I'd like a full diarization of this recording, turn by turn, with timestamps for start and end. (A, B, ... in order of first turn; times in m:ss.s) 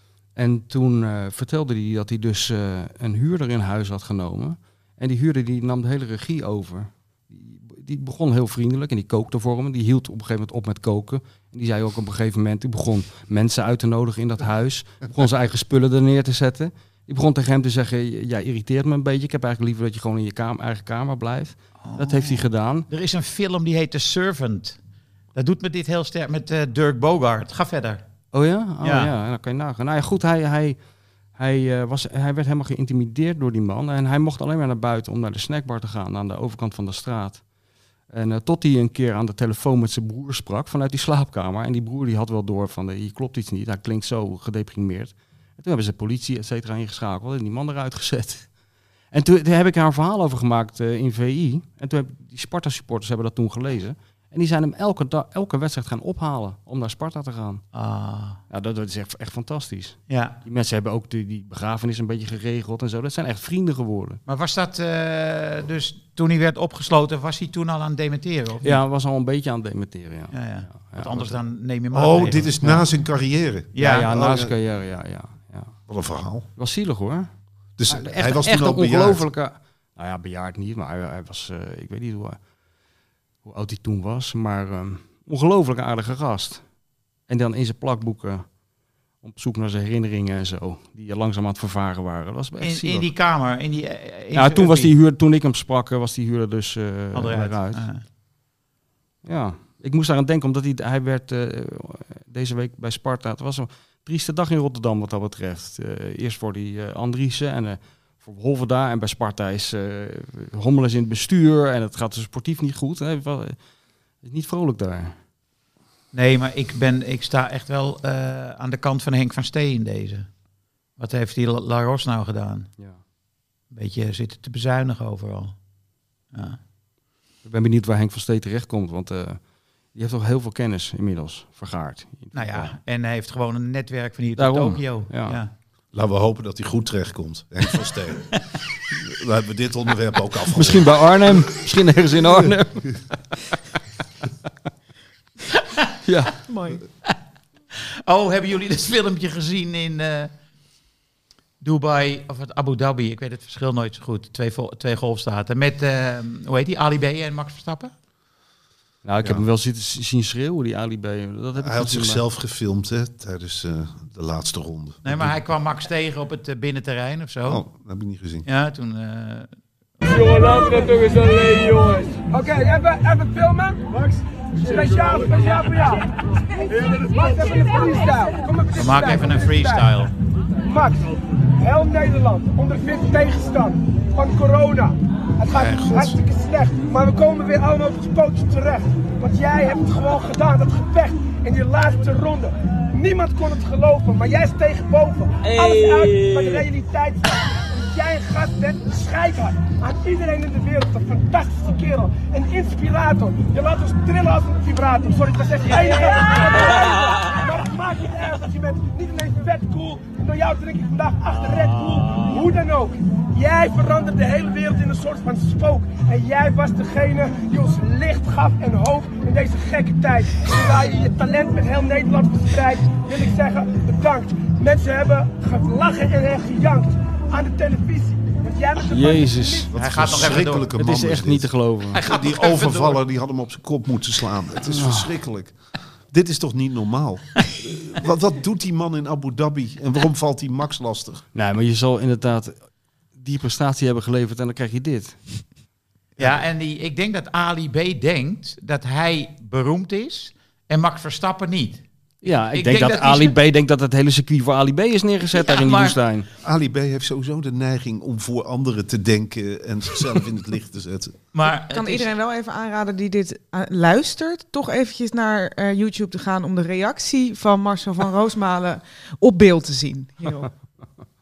0:00.4-0:22.8 A
0:21.8-0:24.8 B
0:25.3-0:28.0 B
0:28.3-0:30.8 A
0:28.8-0:29.1 B
0:31.3-0:37.4 A
0:38.1-0:48.5 A
0:49.1-0:57.6 A
0:57.7-0:58.4 B
0:58.5-1:04.2 A
1:00.1-1:00.4 B
1:04.3-1:08.8 B
1:08.6-1:11.4 A
1:10.3-1:12.5 B
1:11.9-1:14.5 C
1:13.7-1:14.0 B
1:13.8-1:15.8 A
1:15.9-1:16.4 C
1:16.6-1:17.3 A
1:17.8-1:19.2 C
1:17.9-1:22.4 A
1:23.4-1:26.6 A
1:27.3-1:28.5 A
1:29.2-1:33.1 A
1:32.6-1:34.9 B
1:34.3-1:37.8 A
1:37.1-1:38.0 B
1:39.2-1:53.6 A
1:54.2-1:55.2 A
1:56.1-2:00.3 B
2:01.0-2:02.7 B
2:03.7-2:05.5 B
2:06.3-2:06.6 B
2:07.4-2:09.4 A
2:09.9-2:12.7 A
2:12.3-2:15.5 B
2:14.4-2:15.4 A
2:15.9-2:21.4 C
2:20.5-2:23.5 A
2:22.3-2:22.9 C
2:25.5-2:25.8 B
2:26.0-2:26.4 A
2:26.5-2:26.8 D
2:28.0-2:30.3 B
2:31.6-2:37.9 B
2:39.0-2:42.2 A
2:41.6-2:45.3 C
2:45.0-2:47.6 B
2:47.4-2:48.5 C
2:48.4-2:49.5 B
2:50.2-2:59.9 E
2:58.8-3:00.1 B
3:00.6-3:49.7 E
3:05.5-3:06.2 B
3:48.8-3:52.0 A
3:49.7-3:55.6 C
3:49.7-3:50.7 B
3:51.9-3:53.0 B
3:54.6-3:55.1 A
3:56.1-4:01.2 C
4:01.3-4:05.4 A
4:06.2-4:13.4 B
4:12.2-4:16.3 A
4:15.4-4:15.9 B
4:16.4-4:21.2 C
4:21.3-4:22.1 B
4:21.7-4:30.5 D